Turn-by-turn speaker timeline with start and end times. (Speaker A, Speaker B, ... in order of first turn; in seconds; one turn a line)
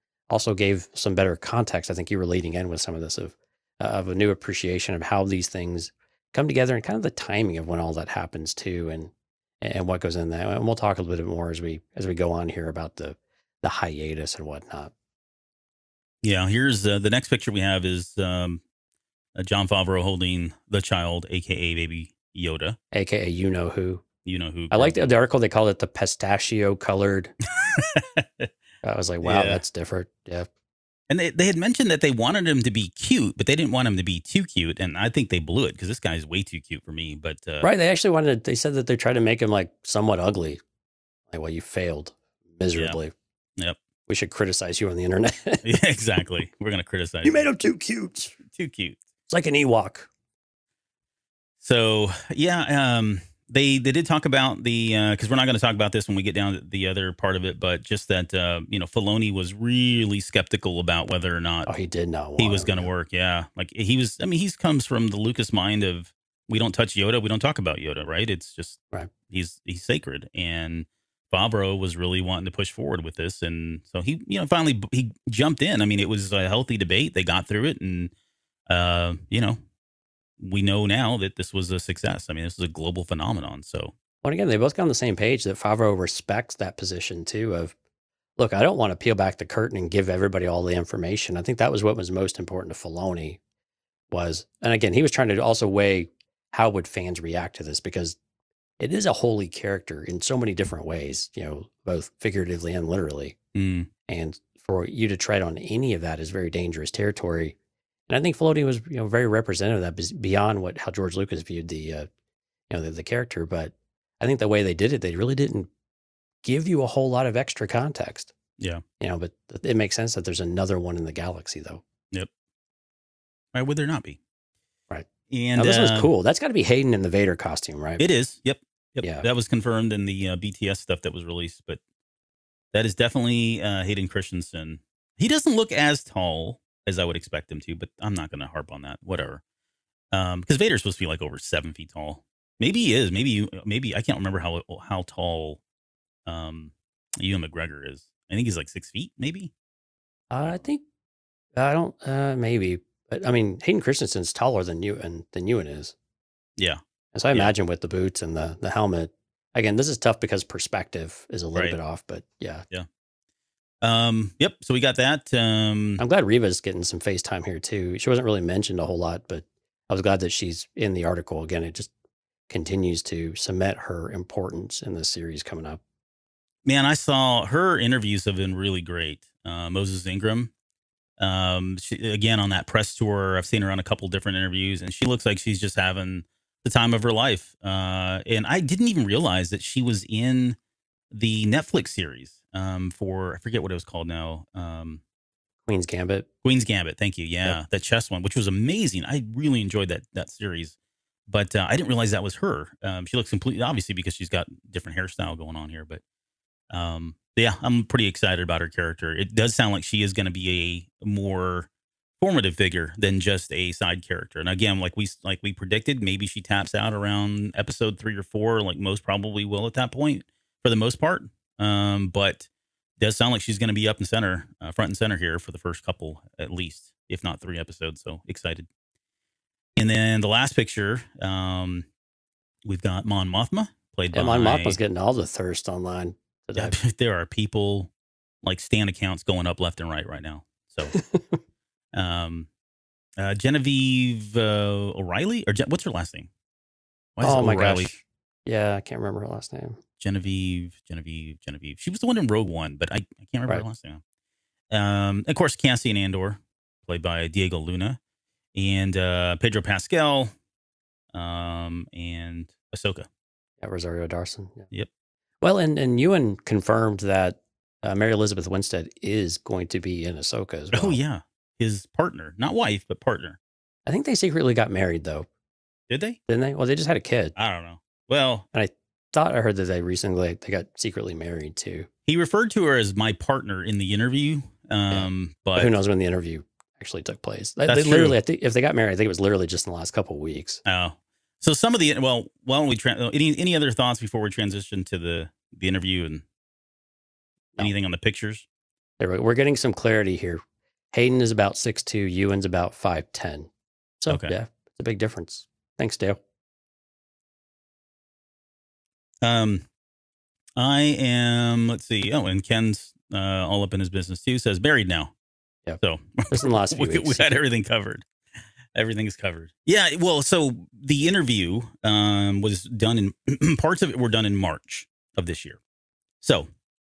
Speaker A: 0.3-14.9
Speaker B: 16.2-18.6
Speaker B: 19.4-22.8
Speaker A: 22.9-24.0
Speaker B: 24.2-25.0
Speaker A: 24.7-27.3
Speaker B: 27.6-28.5
Speaker A: 28.8-30.5
Speaker B: 29.2-29.6
Speaker B: 31.1-37.7
Speaker A: 37.6-40.6
Speaker A: 41.3-43.1
Speaker A: 44.1-45.6
Speaker B: 45.6-47.5
Speaker A: 47.2-48.4
Speaker B: 48.5-49.0
Speaker A: 49.3-50.1
Speaker B: 51.6-61.7
Speaker A: 61.7-62.9
Speaker B: 62.4-78.1
Speaker B: 78.7-79.6
Speaker B: 80.4-83.9
Speaker A: 84.2-87.8
Speaker A: 88.4-93.4
Speaker A: 94.1-98.2
Speaker A: 98.8-103.4
Speaker B: 103.5-103.9
Speaker A: 104.1-107.6
Speaker A: 108.1-112.1
Speaker A: 112.7-115.7
Speaker A: 116.4-118.3
Speaker A: 119.0-121.8
Speaker B: 123.5-124.2
Speaker A: 124.9-128.0
Speaker B: 125.3-126.1
Speaker B: 128.0-131.8
Speaker B: 132.7-139.4
Speaker B: 140.1-145.6
Speaker B: 146.3-149.5
Speaker A: 150.3-150.8
Speaker A: 151.6-155.9
Speaker A: 157.1-162.7
Speaker B: 163.8-166.0
Speaker A: 166.0-171.9
Speaker A: 172.5-175.8
Speaker B: 176.7-180.5
Speaker B: 181.2-190.6
Speaker B: 191.1-195.0
Speaker A: 195.7-196.3
Speaker B: 196.4-200.8
Speaker B: 201.3-206.0
Speaker B: 206.7-211.7
Speaker B: 212.2-228.7
Speaker B: 229.8-231.9
Speaker B: 232.6-234.8
Speaker A: 234.1-236.8
Speaker B: 236.6-237.9
Speaker B: 238.4-240.9
Speaker A: 240.9-241.4
Speaker B: 241.9-242.5
Speaker B: 243.2-246.3
Speaker B: 247.2-247.9
Speaker A: 247.2-249.8
Speaker B: 250.0-254.0
Speaker B: 254.7-258.0
Speaker B: 258.6-260.3
Speaker B: 261.1-263.1
Speaker A: 263.6-264.7
Speaker A: 265.4-271.0
Speaker B: 270.7-273.4
Speaker A: 273.9-275.3
Speaker B: 275.9-276.2
Speaker A: 276.3-277.4
Speaker B: 277.4-278.5
Speaker A: 278.5-281.9
Speaker B: 282.1-285.7
Speaker A: 284.9-290.6
Speaker B: 287.7-288.2
Speaker B: 290.6-296.2
Speaker B: 297.6-298.5
Speaker A: 299.0-303.5
Speaker A: 304.0-306.2
Speaker B: 304.1-304.3
Speaker B: 309.2-309.7
Speaker B: 310.6-315.1
Speaker B: 315.8-318.1
Speaker A: 316.3-317.3
Speaker B: 318.7-325.6
Speaker B: 326.2-326.5